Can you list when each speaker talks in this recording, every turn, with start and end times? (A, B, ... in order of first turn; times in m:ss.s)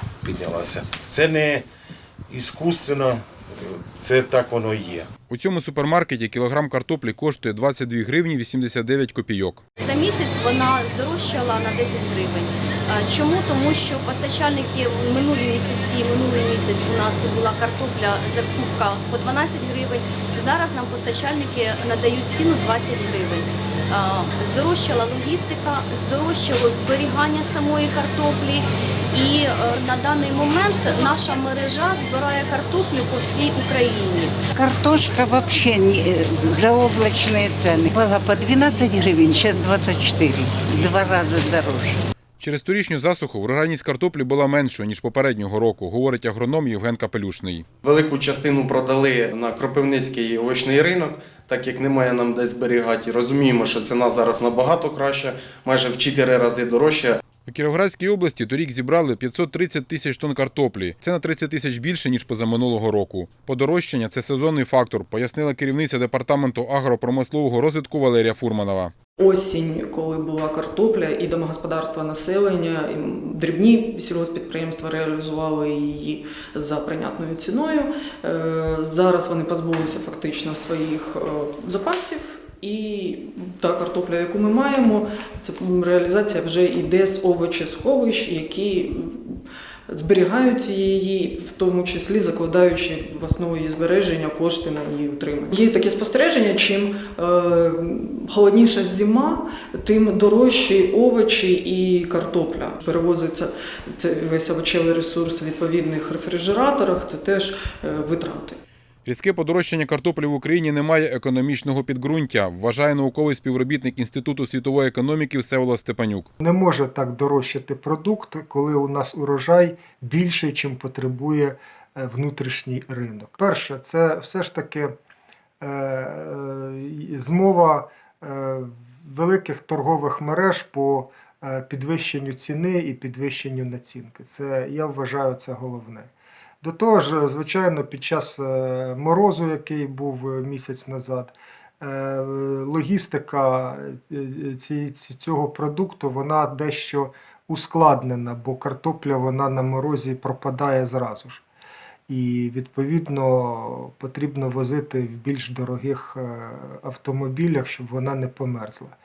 0:00.2-0:01.6 A
0:02.3-0:05.1 A
0:05.3-0:09.6 B
0:09.8-0:34.3 C
0:34.5-0:42.0 D
0:42.4-0:47.6 B
0:47.8-0:57.2 E
0:57.4-1:08.9 B
1:09.2-1:48.6 F
1:49.0-1:56.3 B
1:56.4-2:04.9 G
2:05.6-2:31.4 G
2:32.1-2:39.0 G